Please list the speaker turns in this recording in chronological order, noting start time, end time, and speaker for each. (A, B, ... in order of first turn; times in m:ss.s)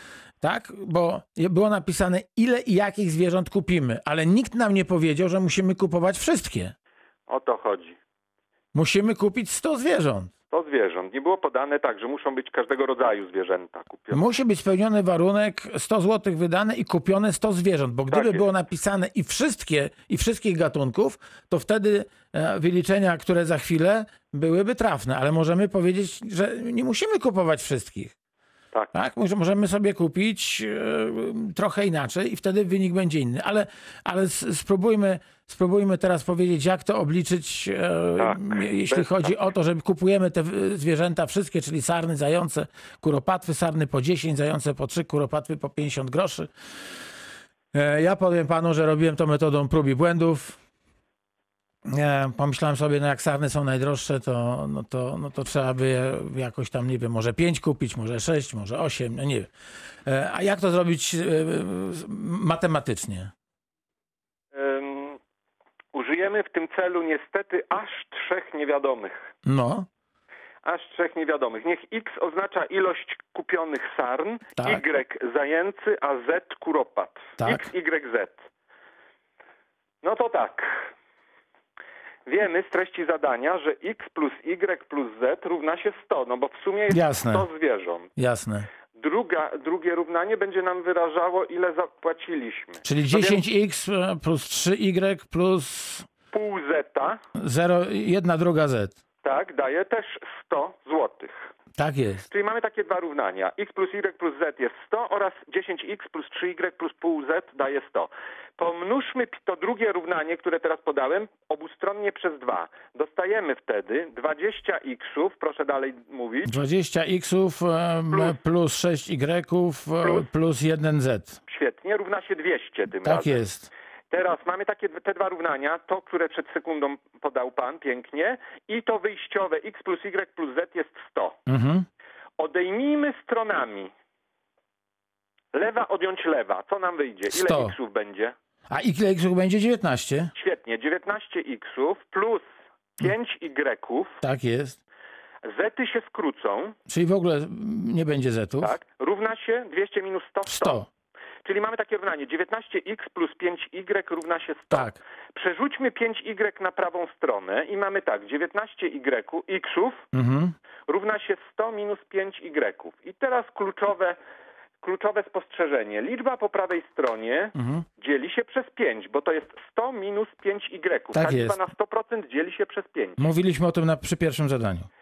0:00.4-0:06.7 A
0:07.3-0:08.0 B
0:08.7-0:10.3 A
0:10.5-0:14.2 B
0:14.1-0:28.1 A
0:18.1-0:18.5 B
0:28.9-0:46.5 A
0:38.2-0:39.4 B
0:47.7-0:50.6 A
0:51.8-0:59.5 A
1:00.0-1:03.3 A
1:04.5-1:05.2 B
1:05.9-1:09.3 B
1:09.4-1:09.9 A
1:10.6-1:18.4 B
1:14.6-1:14.8 A
1:17.4-1:17.7 A
1:20.0-1:20.9 B
1:22.2-1:28.1 B
1:26.9-1:27.4 A
1:28.2-1:28.7 A
1:29.0-1:33.4 B
1:32.8-1:36.1 A
1:36.3-1:37.2 B
1:37.4-1:38.9 A
1:39.2-1:41.5 B
1:41.8-1:42.2 A
1:42.3-1:56.5 B
1:56.4-2:01.4 A
1:58.1-1:58.4 B
2:00.0-2:00.3 B
2:01.5-2:03.4 B
2:03.0-2:03.7 A
2:04.1-2:11.4 B
2:11.5-2:11.8 A
2:12.4-2:13.9 B
2:15.5-2:18.3 B
2:17.3-2:17.7 A
2:18.7-2:20.3 A
2:20.3-2:22.4 B
2:23.0-2:24.2 B
2:24.2-2:24.8 A
2:25.4-2:26.8 B
2:26.9-2:28.7 A
2:28.6-2:30.8 B
2:30.4-2:30.9 A
2:31.4-2:40.0 B
2:34.7-2:35.0 A
2:40.1-2:40.5 A
2:40.9-2:44.2 B
2:44.8-2:53.2 B
2:47.5-2:47.8 A
2:51.1-2:51.6 A
2:53.2-2:54.9 A